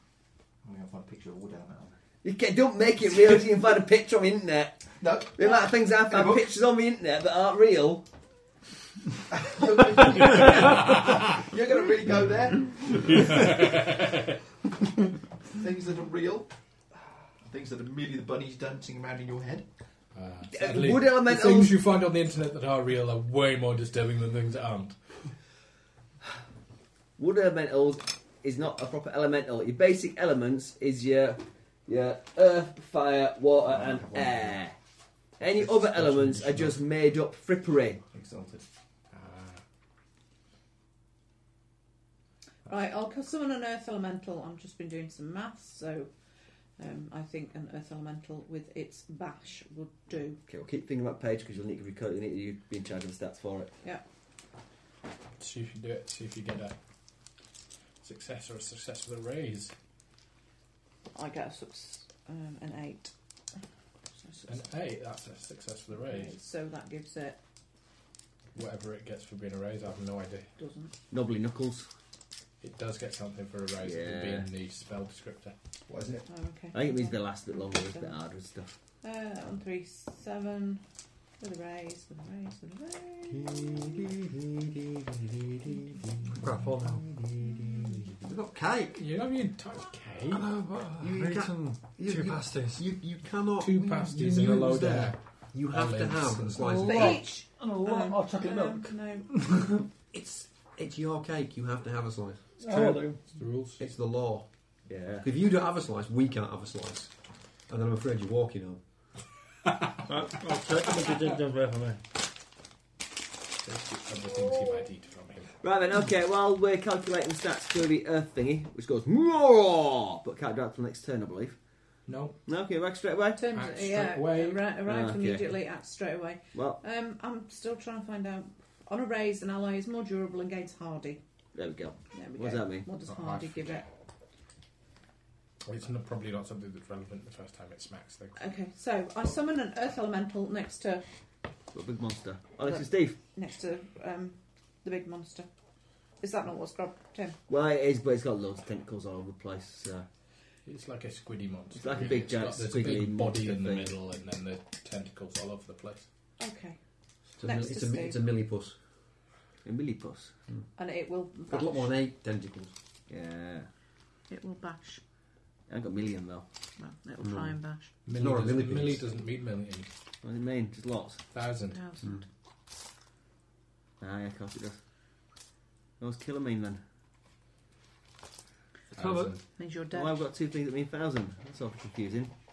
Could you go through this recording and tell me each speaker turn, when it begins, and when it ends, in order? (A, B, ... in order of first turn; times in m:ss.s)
0:00.6-0:02.0 A
0:02.2-0:08.0 B
0:05.0-0:06.5 A
0:09.3-0:13.7 A
0:12.9-0:14.2 C
0:15.5-0:16.5 A
0:17.4-0:19.7 A
0:20.1-0:25.2 C
0:20.5-0:21.8 B
0:27.2-0:34.7 B
0:33.6-0:34.6 A
0:35.4-0:38.0 B
0:36.0-0:36.7 C
0:38.1-0:38.6 A
0:39.1-0:39.6 C
0:42.7-0:46.1 D
0:46.8-0:50.4 D
0:50.5-0:53.7 B
0:55.4-0:56.7 C
0:58.0-0:59.7 C
1:01.1-1:03.1 D
1:04.2-1:04.7 D
1:04.5-1:06.4 C
1:06.0-1:07.4 D
1:08.5-1:10.5 C
1:10.6-1:10.9 D
1:11.1-1:11.9 B
1:12.6-1:15.5 C
1:13.8-1:14.5 B
1:15.9-1:16.3 A
1:16.3-1:18.1 D
1:16.7-1:18.8 B
1:19.0-1:20.8 D
1:21.4-1:23.7 D
1:23.4-1:24.6 E
1:26.4-1:27.0 F
1:26.8-1:29.0 E
1:28.9-1:30.4 C
1:30.3-1:32.8 F
1:31.0-1:37.2 E
1:33.6-1:36.8 C
1:36.6-1:39.8 F
1:36.8-1:39.3 D
1:40.1-1:43.2 E
1:42.6-1:43.2 F
1:43.3-1:43.9 C
1:43.8-1:44.5 E
1:44.9-1:45.2 B
1:45.2-1:47.1 E
1:47.7-1:48.8 E
1:50.1-1:52.0 F
1:53.6-1:55.5 C
1:55.6-2:01.6 B
2:02.0-2:02.4 C
2:02.4-2:03.4 B
2:03.4-2:11.2 D
2:03.5-2:04.7 C
2:04.8-2:05.5 B
2:06.5-2:06.8 B
2:11.5-2:12.9 B
2:12.1-2:13.8 D
2:13.1-2:13.8 C
2:15.6-2:18.4 C
2:18.4-2:21.0 D
2:21.7-2:23.2 B
2:22.6-2:25.5 D
2:26.2-2:27.4 D
2:27.5-2:30.0 B
2:30.6-2:36.1 C
2:31.7-2:34.0 B
2:36.4-2:36.8 D
2:37.4-2:38.7 E
2:37.4-2:38.3 D
2:39.6-2:40.3 B
2:40.8-2:41.9 D
2:41.5-2:42.7 E
2:43.1-2:43.7 B
2:44.3-2:45.0 D
2:45.7-2:46.4 B
2:46.8-2:47.9 D
2:47.2-2:47.6 E
2:48.0-2:49.9 C
2:48.1-2:49.0 E
2:50.2-2:51.2 B
2:51.3-2:51.8 C
2:51.7-2:52.2 D
2:54.0-2:54.8 B
2:56.0-2:56.8 B
2:58.9-2:59.4 C
2:59.0-2:59.3 F
2:59.6-3:00.2 D
2:59.9-3:02.3 B